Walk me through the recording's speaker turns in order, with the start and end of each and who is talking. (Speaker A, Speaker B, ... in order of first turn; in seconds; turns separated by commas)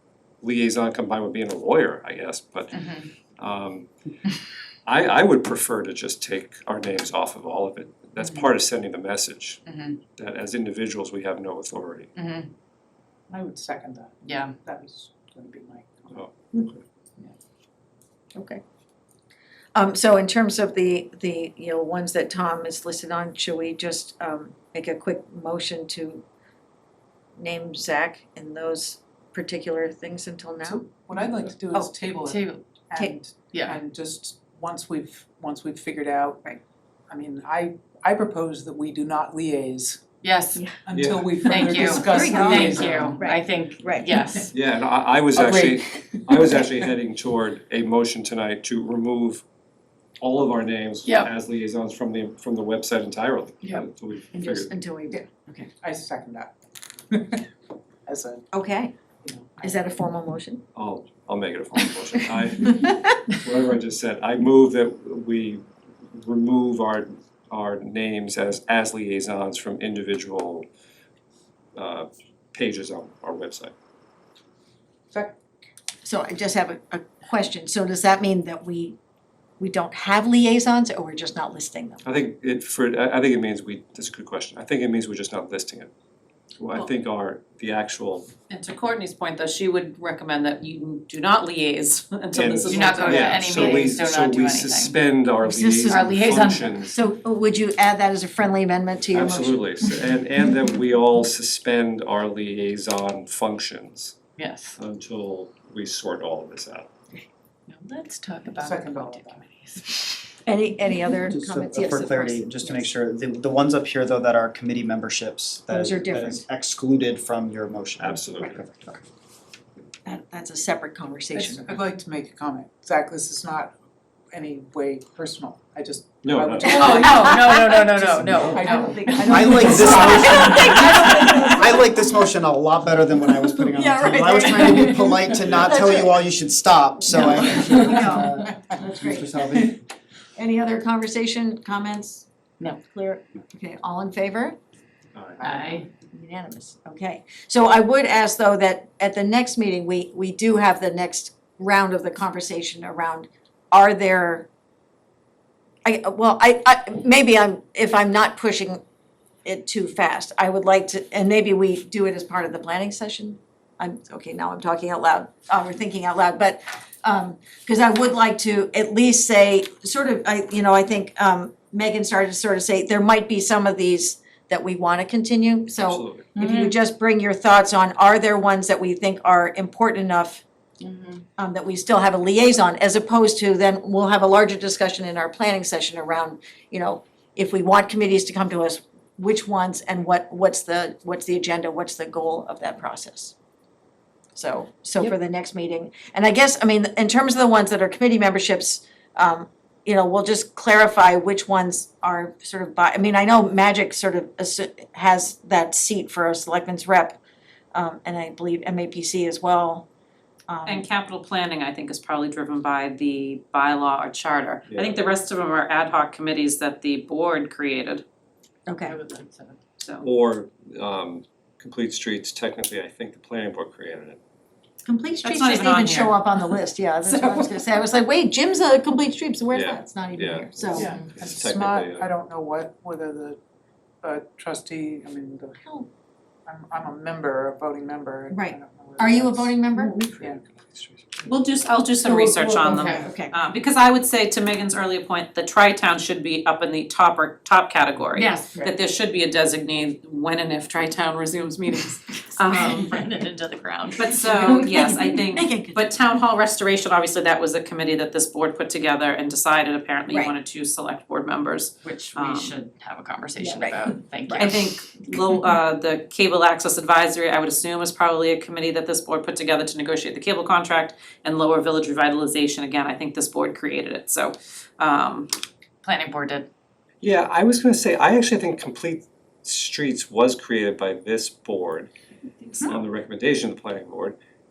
Speaker A: 0.4-3.9, Speaker B: 2.7-3.1, Speaker A: 4.8-9.6, Speaker B: 9.7-10.0, Speaker A: 10.2-12.1, Speaker B: 12.2-12.5, Speaker C: 13.3-16.2, Speaker B: 14.2-14.6, Speaker A: 16.1-16.8, Speaker D: 18.3-18.6, Speaker D: 19.7-26.2, Speaker D: 27.4-31.9, Speaker C: 30.6-40.1, Speaker B: 32.2-32.7, Speaker B: 33.5-33.8, Speaker B: 40.2-40.7, Speaker C: 40.8-43.4, Speaker A: 40.9-41.3, Speaker D: 41.4-44.2, Speaker B: 41.4-44.5, Speaker A: 44.5-49.4, Speaker C: 45.3-46.7, Speaker A: 50.2-54.7, Speaker D: 54.3-55.7, Speaker C: 55.8-56.5, Speaker C: 57.1-57.5, Speaker C: 58.0-58.5, Speaker D: 58.5-58.9, Speaker C: 59.2-59.8, Speaker D: 59.6-60.6, Speaker A: 60.7-70.7, Speaker D: 62.5-63.2, Speaker A: 71.7-73.7, Speaker C: 75.1-75.3, Speaker D: 76.0-79.0, Speaker D: 79.6-82.0, Speaker A: 82.0-85.9, Speaker A: 86.6-88.3, Speaker E: 88.5-93.8, Speaker A: 92.3-97.0, Speaker B: 92.6-95.0, Speaker D: 95.4-99.9, Speaker B: 95.9-96.8, Speaker A: 99.1-104.2, Speaker B: 104.4-104.8, Speaker A: 104.8-106.9, Speaker B: 107.7-110.2, Speaker C: 108.5-109.4, Speaker D: 110.4-112.9, Speaker F: 111.2-119.0, Speaker D: 115.7-116.4, Speaker A: 118.0-118.6, Speaker D: 120.0-121.8, Speaker C: 121.3-123.7, Speaker C: 124.3-131.2, Speaker A: 126.2-127.0, Speaker B: 126.6-129.7, Speaker D: 126.6-131.9, Speaker F: 129.3-139.8, Speaker D: 133.5-136.1, Speaker D: 137.1-139.7, Speaker D: 140.4-142.2, Speaker D: 142.8-144.6, Speaker A: 145.1-145.4, Speaker C: 145.4-145.9, Speaker B: 145.4-145.8, Speaker D: 146.0-154.5, Speaker D: 155.8-158.8, Speaker D: 159.4-180.4, Speaker A: 175.8-176.3, Speaker B: 176.3-176.8, Speaker B: 180.8-181.2, Speaker D: 181.4-193.3, Speaker D: 194.3-207.2, Speaker D: 207.7-209.8, Speaker D: 210.5-210.9, Speaker E: 210.7-218.0, Speaker A: 214.7-214.9, Speaker D: 218.7-219.0, Speaker B: 218.8-219.6, Speaker E: 219.8-220.1, Speaker A: 220.0-224.2, Speaker D: 224.8-230.9, Speaker E: 225.2-226.5, Speaker E: 227.1-227.5, Speaker A: 229.5-232.1, Speaker C: 230.7-233.4, Speaker B: 230.8-231.0, Speaker C: 234.0-235.8, Speaker C: 236.4-239.6, Speaker D: 238.3-240.0, Speaker A: 240.0-241.3, Speaker E: 241.2-253.0, Speaker D: 242.0-243.4, Speaker B: 242.7-243.1, Speaker B: 248.1-248.6, Speaker B: 252.5-254.7, Speaker E: 253.9-262.6, Speaker D: 254.4-255.9, Speaker D: 260.1-260.3, Speaker B: 261.8-264.7, Speaker D: 263.4-264.5, Speaker E: 264.4-275.3, Speaker B: 275.8-276.5, Speaker A: 277.0-281.9, Speaker A: 282.6-284.2